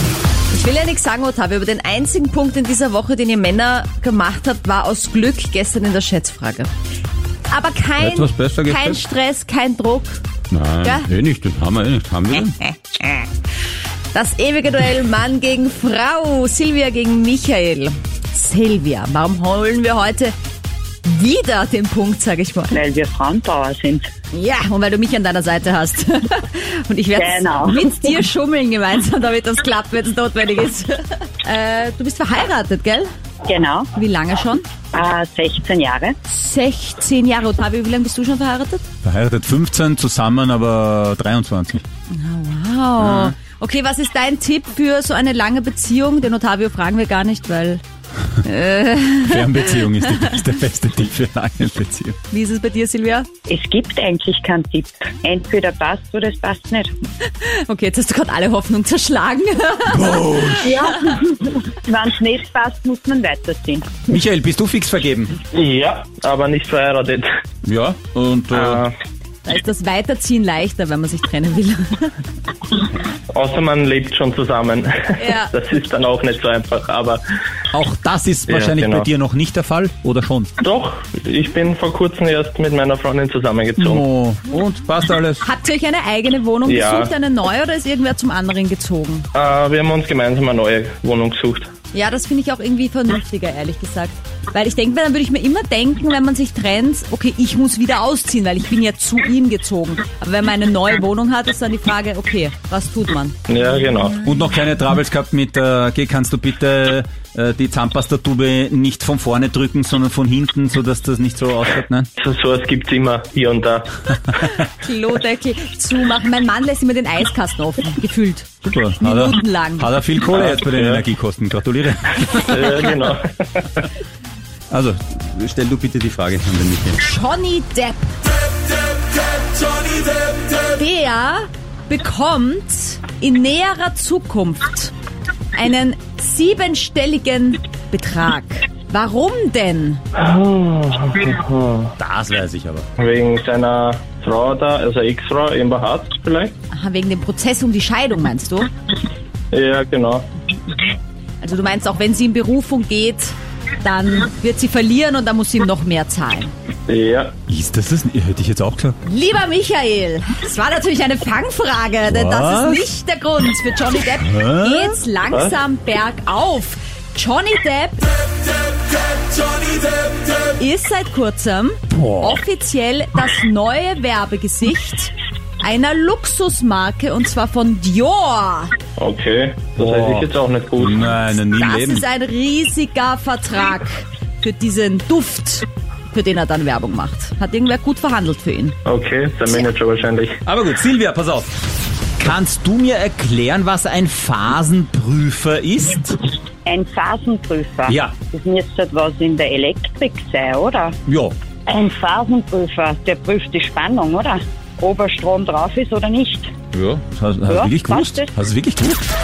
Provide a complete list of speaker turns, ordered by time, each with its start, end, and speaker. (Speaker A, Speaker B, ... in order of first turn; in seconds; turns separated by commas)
Speaker A: 0.5-6.7, Speaker A: 7.5-10.2, Speaker B: 8.0-9.0, Speaker B: 10.5-12.6, Speaker A: 10.8-11.1, Speaker A: 12.6-13.3, Speaker A: 14.1-20.3, Speaker A: 21.0-22.8, Speaker C: 22.7-24.1, Speaker A: 24.3-33.1, Speaker C: 27.1-28.1, Speaker C: 33.5-33.9, Speaker A: 33.9-34.7, Speaker C: 34.9-36.1, Speaker A: 36.3-38.8, Speaker B: 39.0-41.8, Speaker A: 42.1-47.8, Speaker B: 43.0-43.3, Speaker A: 48.4-49.9, Speaker B: 49.3-52.2, Speaker A: 52.3-53.3, Speaker C: 53.5-56.9, Speaker A: 57.3-61.2, Speaker B: 59.9-60.7, Speaker C: 60.6-64.0, Speaker B: 64.1-65.4, Speaker D: 65.5-67.3, Speaker B: 67.6-68.8, Speaker D: 68.5-68.9, Speaker A: 69.5-72.2, Speaker D: 73.3-77.2, Speaker A: 75.2-75.5, Speaker B: 77.7-80.5, Speaker D: 78.5-79.1, Speaker D: 80.6-84.0, Speaker B: 83.8-85.4, Speaker A: 85.4-89.3, Speaker D: 86.7-87.1, Speaker D: 89.3-91.7, Speaker A: 91.9-103.4, Speaker D: 103.5-104.2, Speaker B: 104.2-112.1, Speaker D: 112.2-114.2, Speaker A: 114.7-119.9, Speaker B: 118.6-122.9, Speaker D: 120.3-121.0, Speaker D: 122.5-123.9, Speaker B: 124.7-127.0, Speaker A: 127.0-128.1, Speaker A: 130.7-134.9, Speaker A: 135.5-140.0, Speaker D: 140.2-141.9, Speaker B: 142.0-142.9, Speaker D: 143.0-146.5, Speaker A: 146.7-148.7, Speaker D: 149.5-150.3, Speaker A: 151.4-156.5, Speaker D: 156.9-157.3, Speaker B: 157.5-159.0, Speaker A: 159.1-168.1, Speaker B: 162.1-162.9, Speaker B: 164.2-165.0, Speaker A: 170.6-178.7, Speaker B: 171.9-172.4, Speaker D: 179.0-181.1, Speaker B: 179.8-180.3, Speaker B: 180.8-182.0, Speaker A: 181.3-188.8, Speaker D: 188.9-190.4, Speaker B: 190.5-191.6, Speaker B: 192.2-196.2, Speaker C: 196.7-201.0, Speaker B: 197.9-198.1, Speaker B: 201.1-201.3, Speaker C: 201.7-206.5, Speaker B: 206.7-209.1, Speaker C: 207.5-208.3